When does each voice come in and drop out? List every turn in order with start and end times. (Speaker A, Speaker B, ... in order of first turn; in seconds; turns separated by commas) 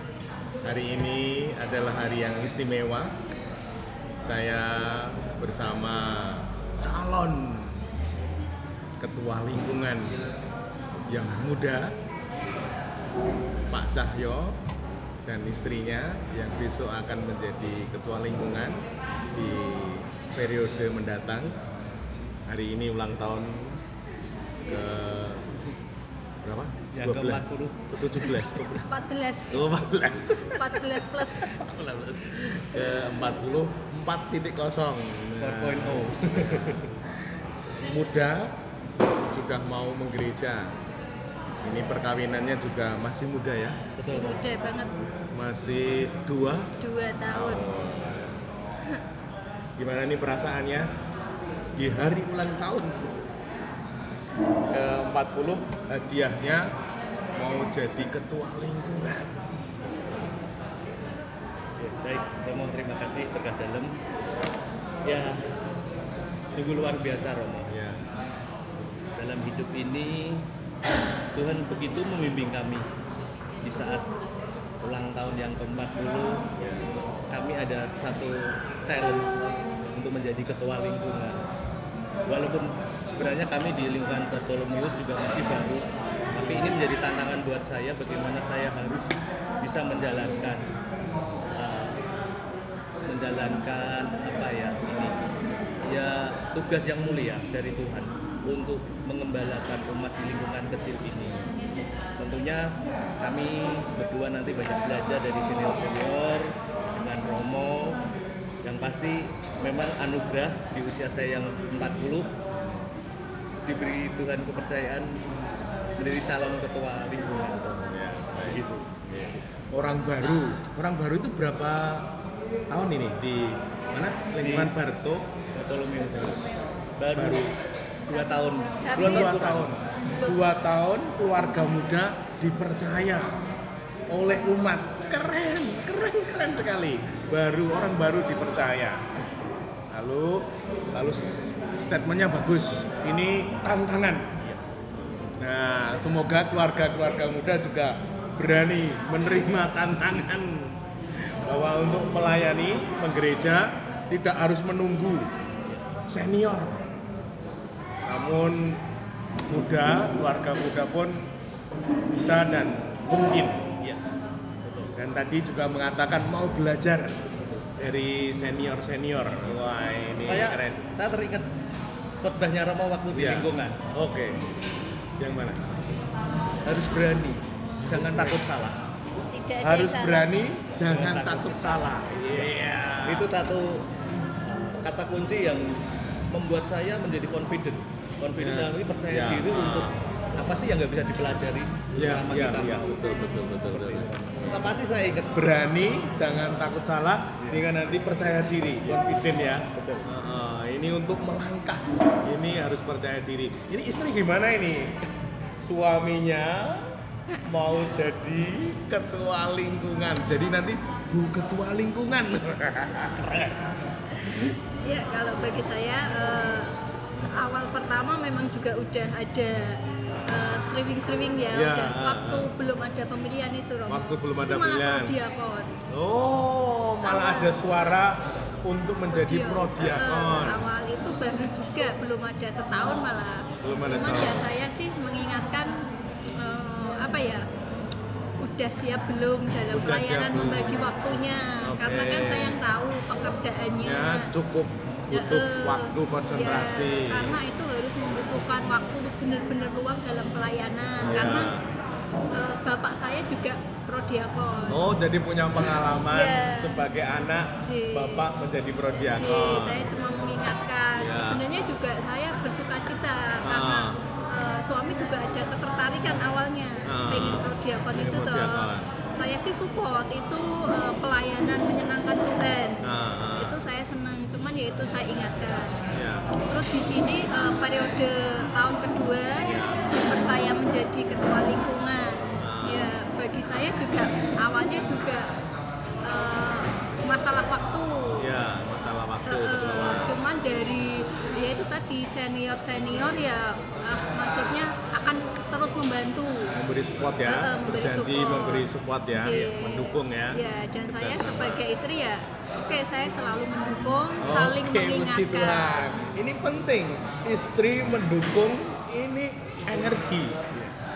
Speaker A: 0.6-3.1, Speaker A: 4.2-7.8, Speaker A: 9.0-10.2, Speaker A: 11.1-11.9, Speaker A: 13.7-14.6, Speaker A: 15.2-18.8, Speaker A: 19.4-21.6, Speaker A: 22.5-23.8, Speaker A: 24.6-25.5, Speaker A: 26.4-28.9, Speaker B: 26.9-27.8, Speaker C: 28.8-29.7, Speaker A: 29.5-37.2, Speaker C: 30.5-31.5, Speaker B: 31.6-32.2, Speaker B: 35.4-36.9, Speaker A: 37.8-38.5, Speaker A: 39.2-40.7, Speaker A: 41.6-43.8, Speaker B: 44.0-44.4, Speaker C: 44.1-44.9, Speaker A: 45.3-46.7, Speaker C: 46.8-47.7, Speaker A: 47.3-48.3, Speaker A: 49.8-50.9, Speaker A: 51.8-53.2, Speaker A: 54.7-56.7, Speaker A: 57.4-59.4, Speaker B: 61.8-63.9, Speaker B: 65.0-65.4, Speaker B: 66.5-67.7, Speaker A: 67.7-68.0, Speaker B: 69.2-70.5, Speaker B: 71.3-72.9, Speaker B: 73.6-74.1, Speaker B: 74.8-76.4, Speaker A: 76.6-76.9, Speaker B: 77.3-81.4, Speaker B: 82.3-90.6, Speaker B: 91.6-92.0, Speaker B: 93.1-95.2, Speaker B: 95.8-101.5, Speaker B: 102.2-108.0, Speaker B: 108.6-112.3, Speaker B: 113.7-115.2, Speaker B: 116.0-119.1, Speaker A: 117.9-122.1, Speaker A: 122.7-125.3, Speaker B: 124.4-124.7, Speaker B: 125.5-127.5, Speaker A: 127.1-127.5, Speaker B: 128.1-129.8, Speaker C: 128.8-129.3, Speaker A: 128.9-133.5, Speaker A: 134.1-139.2, Speaker A: 139.9-144.3, Speaker A: 145.4-155.3, Speaker A: 156.1-156.9, Speaker A: 158.1-158.8, Speaker A: 159.5-161.2, Speaker A: 162.1-163.7, Speaker B: 164.6-164.9, Speaker A: 164.9-170.9, Speaker B: 170.2-171.5, Speaker B: 172.2-173.8, Speaker A: 173.1-174.4, Speaker A: 175.2-175.7, Speaker B: 176.7-178.8, Speaker A: 177.8-178.4, Speaker C: 179.2-180.3, Speaker A: 179.6-183.3, Speaker B: 180.8-181.8, Speaker B: 183.1-183.9, Speaker B: 184.4-185.8, Speaker B: 186.3-193.0, Speaker A: 188.4-190.0, Speaker A: 191.9-194.1, Speaker B: 193.7-195.3, Speaker A: 195.3-214.5, Speaker B: 197.4-197.7, Speaker B: 199.8-200.1, Speaker C: 214.8-225.7, Speaker A: 221.5-222.5, Speaker A: 223.9-225.2, Speaker A: 225.9-230.7, Speaker C: 227.0-227.6, Speaker C: 229.1-235.8, Speaker A: 233.6-234.5, Speaker C: 236.4-237.5, Speaker C: 238.4-244.3, Speaker A: 239.7-241.1, Speaker A: 241.6-242.6, Speaker A: 243.8-247.4, Speaker C: 245.1-251.5, Speaker A: 251.0-251.6, Speaker C: 252.3-254.8, Speaker A: 254.7-259.9, Speaker C: 255.6-256.7, Speaker C: 257.6-258.3, Speaker C: 259.1-272.8, Speaker A: 261.0-261.4, Speaker A: 263.4-264.0, Speaker A: 266.9-268.9, Speaker A: 272.8-273.6, Speaker C: 273.4-275.8, Speaker A: 275.9-276.3, Speaker C: 276.5-285.3, Speaker A: 279.4-279.8, Speaker A: 282.4-282.9, Speaker C: 286.0-288.3, Speaker A: 288.2-290.1, Speaker C: 289.2-296.5, Speaker A: 296.5-301.6, Speaker C: 297.2-305.9, Speaker A: 304.2-310.4, Speaker B: 310.5-310.9